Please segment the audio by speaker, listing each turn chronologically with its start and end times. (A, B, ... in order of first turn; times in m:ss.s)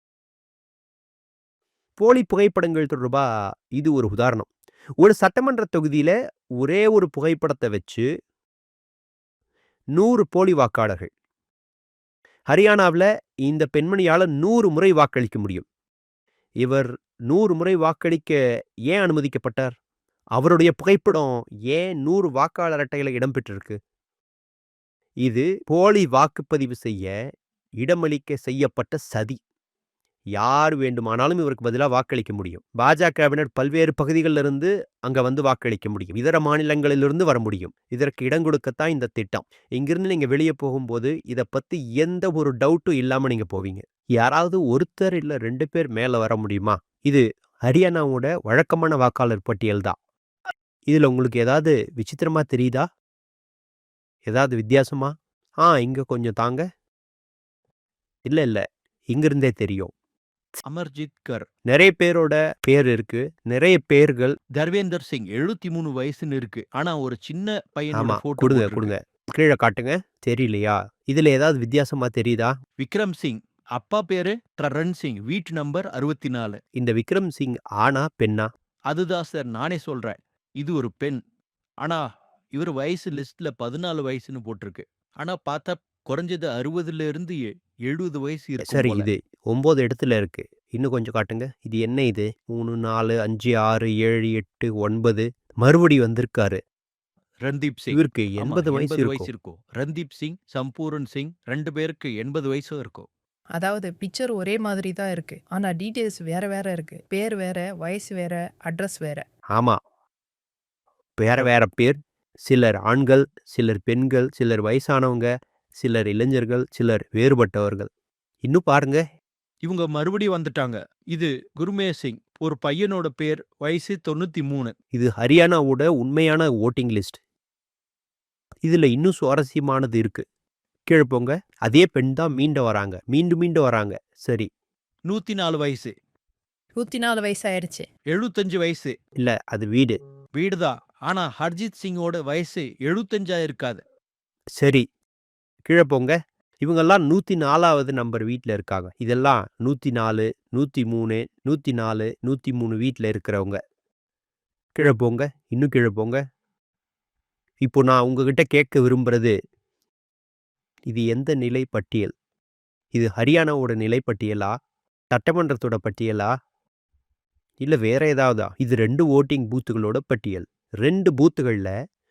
0:02.0-0:04.5 A
0:05.0-0:08.1 A
0:10.0-0:11.1 A
0:12.5-0:15.6 A
0:16.6-0:18.4 A
0:18.9-0:19.8 A
0:20.4-0:23.8 A
0:25.2-0:27.1 A
0:27.8-0:29.4 A
0:30.4-0:50.0 A
0:50.9-0:52.9 A
0:54.3-0:56.6 A
0:58.3-0:59.9 A
1:00.7-1:01.5 B
1:01.7-1:04.4 A
1:04.6-1:08.9 B
1:08.0-1:12.6 A
1:12.8-1:16.6 B
1:16.8-1:18.5 A
1:18.9-1:21.2 B
1:22.5-1:29.1 B
1:28.6-1:36.6 A
1:37.4-1:43.1 B
1:37.9-1:39.3 A
1:43.6-1:49.2 C
1:49.6-1:49.8 A
1:51.2-1:57.9 A
1:58.4-1:59.0 A
1:59.6-2:04.8 B
2:04.9-2:07.2 A
2:08.6-2:10.2 A
2:10.9-2:14.5 A
2:15.1-2:15.9 B
2:16.8-2:17.9 C
2:18.1-2:19.0 B
2:19.2-2:20.0 A
2:20.4-2:23.8 B
2:24.6-2:24.8 A
2:25.7-2:33.6 A
2:34.8-2:36.2 A
2:37.6-2:39.3 A
2:40.9-2:42.1 A
2:42.9-2:44.6 A
2:45.1-2:46.3 A
2:47.6-2:51.7 A